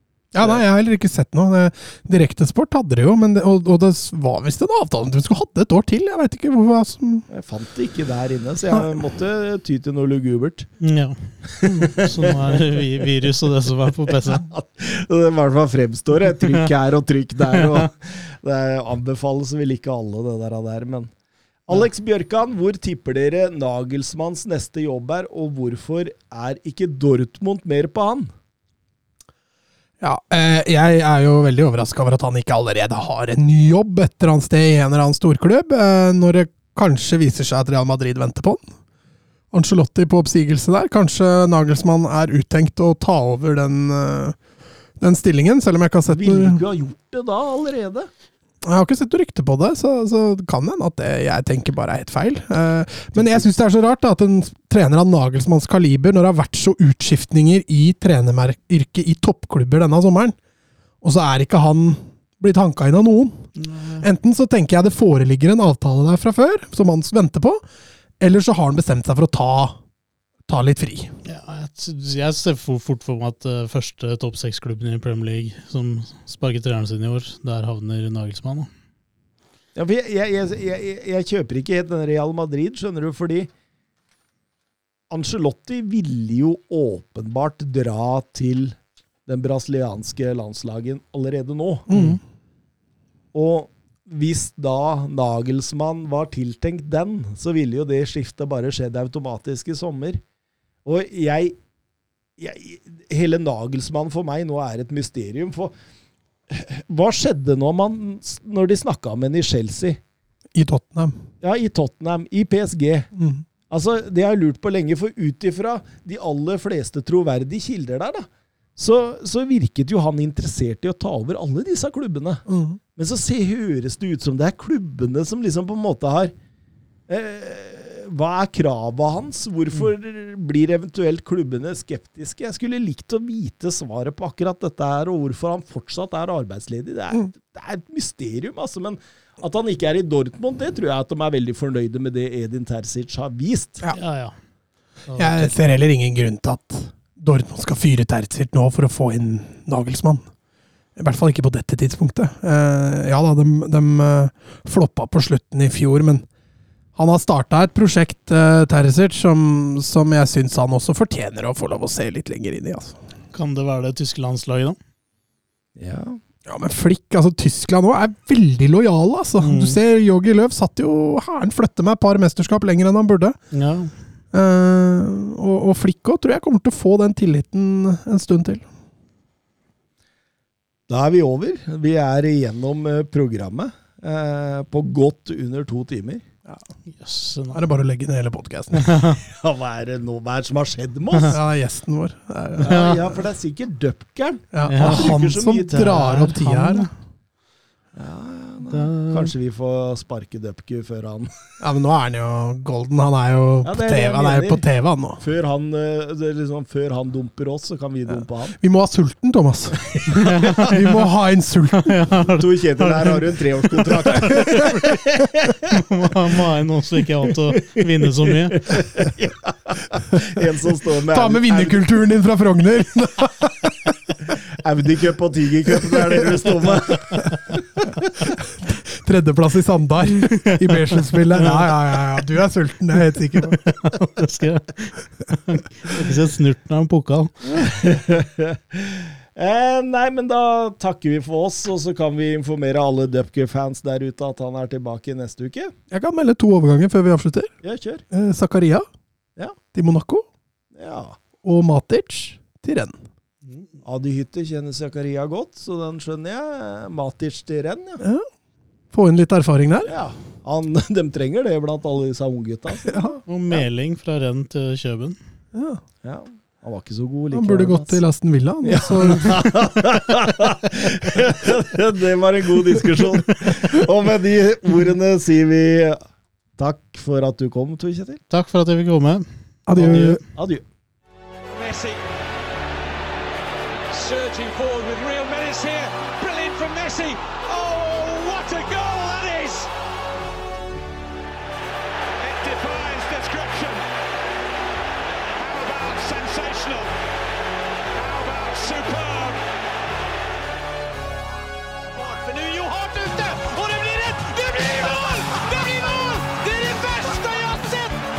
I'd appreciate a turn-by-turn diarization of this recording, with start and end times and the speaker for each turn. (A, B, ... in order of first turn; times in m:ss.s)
0:00.3-0:07.3 A
0:07.3-0:10.7 B
0:10.8-0:14.5 C
0:11.6-0:12.8 B
0:14.2-0:21.1 B
0:21.7-0:28.3 B
0:30.0-0:38.6 A
0:39.5-0:44.4 A
0:45.0-0:46.6 A
0:46.1-0:48.1 B
0:48.6-1:00.4 A
0:53.2-0:53.4 B
1:01.0-1:03.5 A
1:03.6-1:04.0 C
1:04.0-1:07.6 A
1:08.2-1:09.8 A
1:10.5-1:11.1 A
1:11.2-1:18.7 C
1:19.8-1:23.5 B
1:25.1-1:31.8 B
1:31.9-1:32.2 A
1:33.3-1:40.2 B
1:40.8-1:41.6 B
1:42.4-1:45.7 B
1:46.5-1:50.0 B
1:50.5-1:51.2 A
1:51.4-1:53.1 B
1:53.1-1:53.4 A
1:53.7-2:02.4 B
2:02.5-2:02.8 A
2:03.0-2:06.3 B
2:07.1-2:23.8 B
2:23.9-2:24.3 C
2:25.1-2:25.5 C
2:25.2-2:30.2 A
2:31.0-2:36.2 A
2:37.0-2:43.0 A
2:43.3-2:44.8 C
2:45.8-2:46.2 B
2:46.5-2:53.4 A
2:49.4-2:49.8 C
2:53.5-2:53.9 C
2:54.3-2:58.6 A
3:00.9-3:06.2 B
3:07.0-3:07.7 C
3:07.5-3:08.9 A
3:08.7-3:09.2 C
3:09.3-3:11.4 B
3:11.3-3:12.8 A
3:12.6-3:16.2 B
3:12.6-3:13.1 C
3:14.5-3:16.9 A
3:14.7-3:16.9 C
3:18.0-3:21.3 B
3:18.7-3:19.3 C
3:21.6-3:25.2 A
3:23.6-3:24.6 B
3:25.2-3:28.6 B
3:28.6-3:30.0 A
3:29.9-3:30.6 B
3:30.1-3:31.0 C
3:30.6-3:32.0 A
3:31.7-3:34.6 C
3:32.4-3:35.7 B
3:35.7-3:38.7 C
3:38.5-3:41.9 B
3:41.1-3:44.1 A
3:44.6-3:47.2 B
3:47.8-3:53.6 A
3:50.4-3:51.7 C
3:53.4-3:57.7 C
3:57.6-4:05.7 B
4:05.9-4:07.5 A
4:07.6-4:08.0 B
4:08.1-4:08.9 A
4:09.7-4:10.2 A
4:10.8-4:11.2 B
4:11.4-4:13.0 A
4:13.8-4:18.0 B
4:18.0-4:18.3 A
4:18.9-4:20.0 A
4:19.9-4:23.2 B
4:22.8-4:23.2 A
4:23.3-4:25.2 C
4:25.5-4:25.8 A
4:26.0-4:28.0 B
4:27.3-4:29.4 A
4:28.6-4:36.0 B
4:36.6-4:38.2 B
4:38.3-4:40.2 C
4:39.7-4:40.2 A
4:40.3-4:40.6 B
4:41.5-4:42.0 D
4:43.9-4:49.7 D
4:52.2-4:53.8 D
4:55.2-4:56.9 D
4:57.9-4:59.4 D
5:01.9-5:08.0 D